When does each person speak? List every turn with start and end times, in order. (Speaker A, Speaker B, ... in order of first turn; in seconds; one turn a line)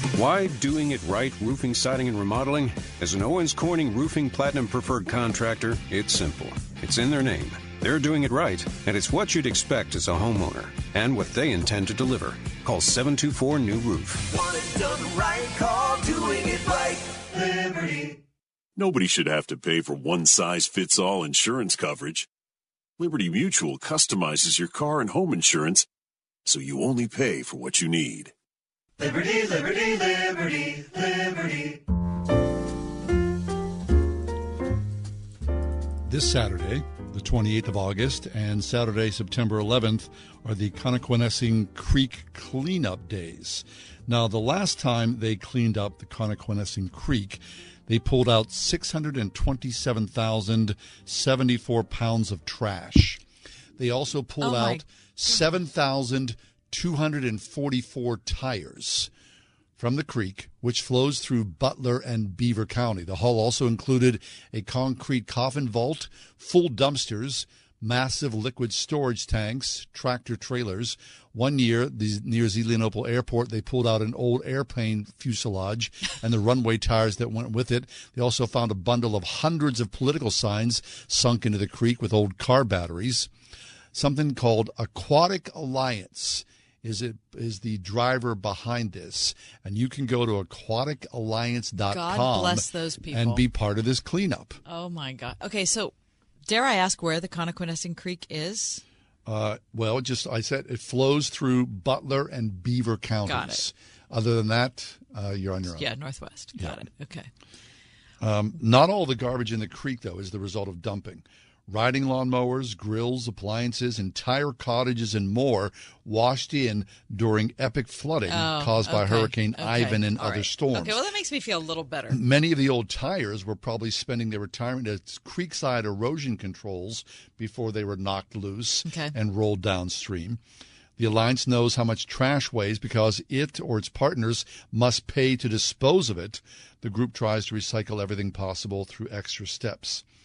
Speaker A: 0.1-14.4
Speaker B: 14.6-17.0
Speaker C: 18.8-22.3
Speaker C: 23.0-25.9
Speaker C: 26.5-28.3
Speaker D: 36.1-53.2
Speaker D: 53.8-59.1
Speaker E: 54.4-55.5
Speaker D: 59.8-83.3
Speaker D: 83.9-94.6
Speaker E: 91.9-93.5
Speaker E: 94.7-95.9
Speaker E: 96.5-98.8
Speaker D: 99.3-105.9
Speaker E: 103.3-103.7
Speaker E: 105.7-107.3
Speaker D: 108.2-121.0
Speaker E: 118.3-122.2
Speaker D: 122.1-130.4
Speaker E: 128.8-129.1
Speaker D: 131.0-140.0